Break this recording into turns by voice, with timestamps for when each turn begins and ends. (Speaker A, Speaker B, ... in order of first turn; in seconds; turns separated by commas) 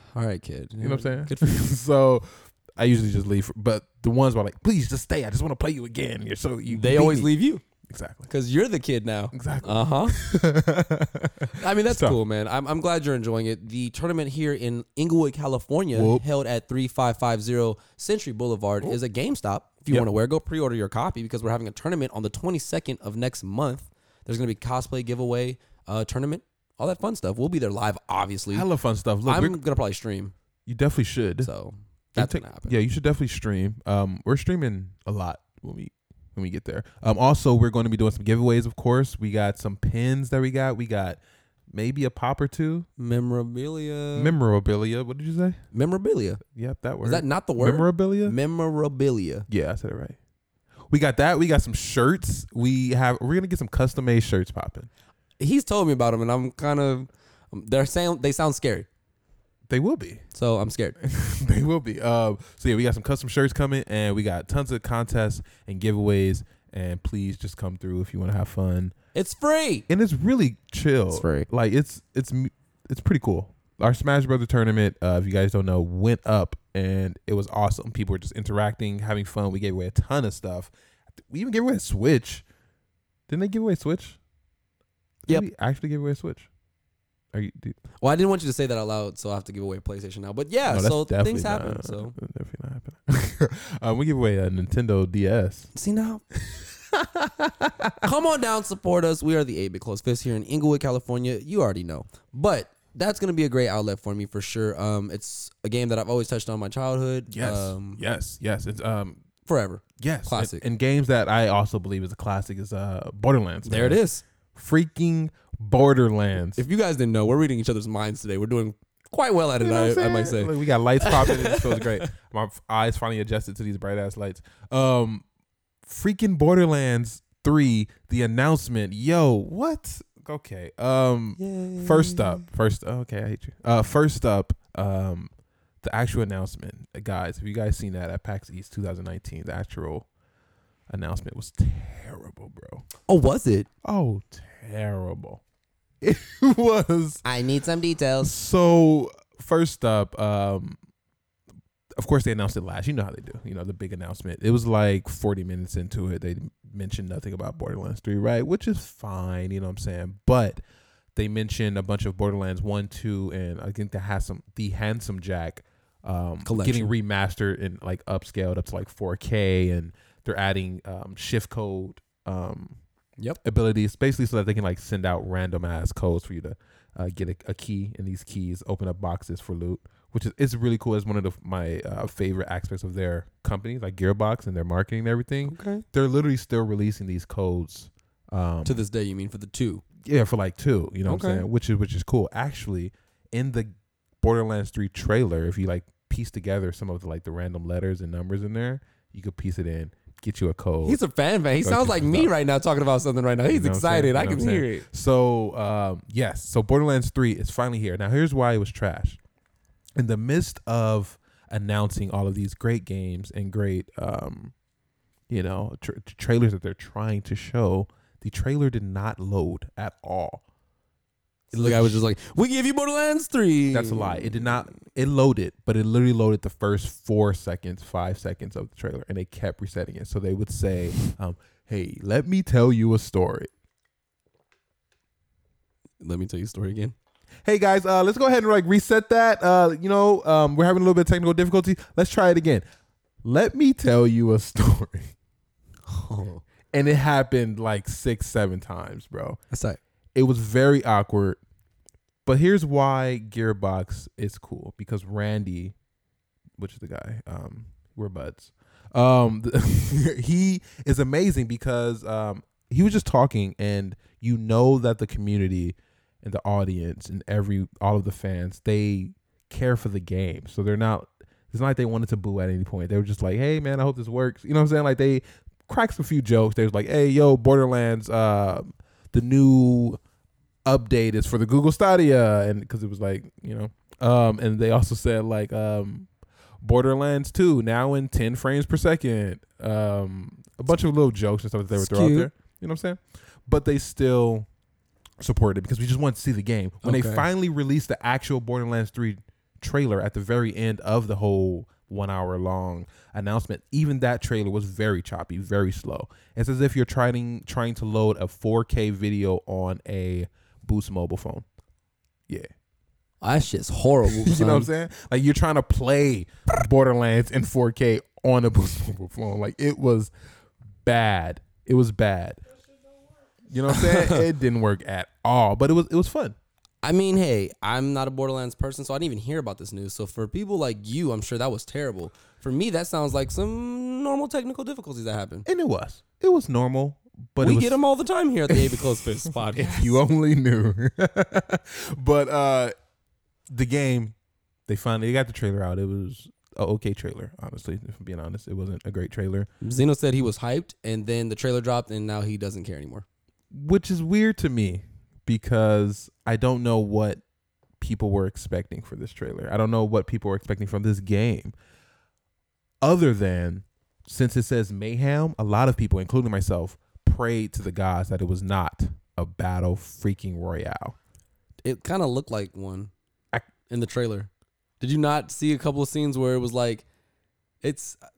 Speaker A: 0.1-1.7, Speaker B: 0.8-7.3, Speaker A: 6.7-7.6, Speaker B: 7.9-8.3, Speaker A: 8.3-10.2, Speaker B: 9.3-12.2, Speaker A: 11.5-28.6, Speaker B: 15.9-16.2, Speaker B: 28.5-29.6, Speaker A: 29.2-30.3, Speaker B: 30.6-31.5, Speaker A: 31.4-32.7, Speaker B: 32.1-42.9, Speaker A: 43.0-44.4, Speaker B: 44.1-45.6, Speaker A: 45.7-46.4, Speaker B: 46.5-48.4, Speaker A: 47.0-49.5, Speaker B: 49.5-50.2, Speaker B: 50.9-54.9, Speaker A: 55.4-58.9, Speaker B: 59.7-60.2, Speaker A: 60.3-61.0, Speaker B: 61.0-68.9, Speaker A: 69.1-69.8, Speaker B: 69.9-80.7, Speaker A: 71.1-71.5, Speaker B: 81.3-82.4, Speaker B: 83.3-84.2, Speaker B: 85.3-86.5, Speaker B: 87.3-87.8, Speaker A: 88.0-92.2, Speaker B: 90.7-95.7, Speaker A: 95.7-96.2, Speaker B: 96.4-98.0, Speaker A: 98.0-108.0, Speaker B: 107.3-109.2, Speaker A: 109.5-110.6, Speaker B: 110.0-114.0, Speaker A: 113.7-114.2, Speaker B: 114.5-116.6, Speaker A: 116.5-122.1, Speaker B: 119.6-125.2, Speaker B: 125.8-135.3, Speaker A: 131.4-132.5, Speaker B: 135.8-140.1, Speaker B: 140.9-142.8, Speaker A: 143.1-143.7, Speaker B: 143.8-145.4, Speaker B: 146.0-147.2, Speaker A: 147.2-148.4, Speaker B: 148.2-150.8, Speaker B: 152.0-160.6, Speaker B: 161.1-172.8, Speaker A: 166.4-166.9, Speaker B: 173.4-188.8, Speaker A: 185.4-185.8, Speaker A: 188.6-189.8, Speaker B: 190.0-201.0, Speaker A: 191.1-191.4, Speaker A: 200.8-204.8, Speaker B: 201.6-202.3, Speaker B: 203.5-209.2, Speaker B: 209.9-214.5, Speaker B: 215.3-220.4, Speaker A: 221.5-224.4, Speaker B: 221.5-222.0, Speaker B: 223.7-233.5, Speaker A: 236.0-236.9, Speaker B: 237.4-242.6, Speaker B: 243.2-245.1, Speaker A: 245.9-246.4, Speaker B: 246.7-249.4, Speaker A: 249.5-249.8, Speaker B: 250.1-251.4, Speaker B: 252.2-255.7, Speaker B: 256.6-280.0, Speaker B: 280.6-286.1, Speaker B: 286.6-294.5, Speaker A: 291.8-292.3, Speaker B: 295.2-311.4, Speaker A: 296.8-297.2, Speaker A: 313.2-314.7, Speaker B: 314.1-320.1, Speaker B: 320.8-322.4, Speaker B: 323.5-326.4, Speaker A: 323.7-324.2, Speaker A: 326.8-335.5, Speaker B: 335.4-337.8, Speaker A: 337.4-340.0, Speaker B: 338.5-342.7, Speaker B: 343.5-344.1, Speaker B: 344.7-349.5, Speaker A: 349.6-353.0, Speaker B: 353.5-357.2, Speaker B: 357.8-361.5, Speaker B: 362.8-370.9, Speaker A: 371.6-372.9, Speaker A: 373.6-376.8, Speaker A: 377.6-378.0